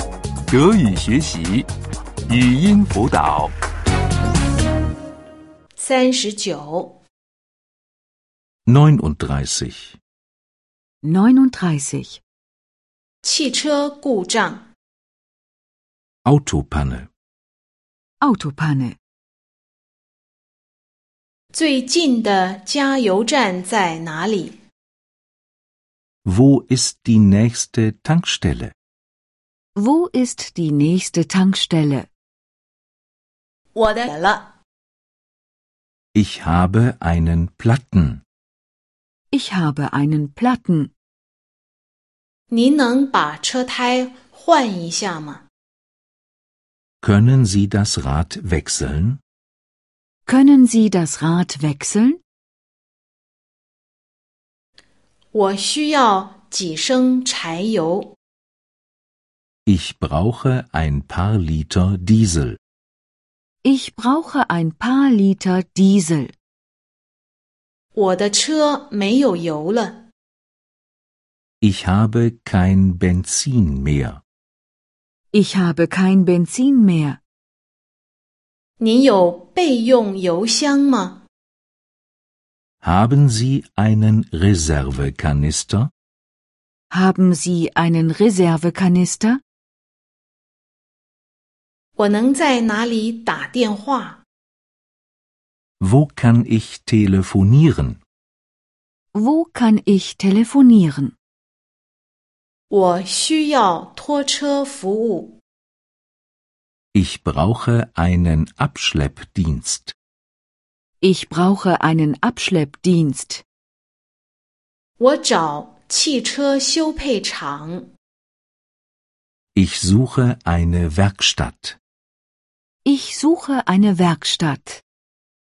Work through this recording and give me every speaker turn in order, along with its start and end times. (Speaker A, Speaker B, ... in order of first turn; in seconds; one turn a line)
Speaker A: 0.5-1.7
Speaker A: 2.3-3.5
Speaker B: 5.8-7.0
Speaker C: 8.7-10.0
Speaker D: 11.0-12.2
Speaker B: 13.2-14.7
Speaker C: 16.2-17.1
Speaker D: 18.2-19.0
Speaker B: 21.5-24.6
Speaker C: 26.2-28.7
Speaker D: 29.8-32.1
Speaker B: 33.8-34.5
Speaker C: 36.1-38.2
Speaker D: 39.3-40.9
Speaker B: 42.5-45.4
Speaker C: 47.0-49.2
Speaker D: 50.3-52.2
Speaker B: 55.3-58.1
Speaker C: 59.7-62.6
Speaker D: 63.6-66.3
Speaker B: 68.0-70.0
Speaker C: 71.6-74.2
Speaker D: 75.3-77.2
Speaker B: 78.8-81.2
Speaker C: 82.8-85.9
Speaker D: 86.9-89.4
Speaker B: 92.0-94.2
Speaker C: 95.8-98.0
Speaker D: 99.1-101.1
Speaker B: 102.7-105.4
Speaker C: 106.9-110.0
Speaker D: 111.0-113.4
Speaker B: 115.0-117.9
Speaker C: 119.5-121.8
Speaker D: 122.8-124.8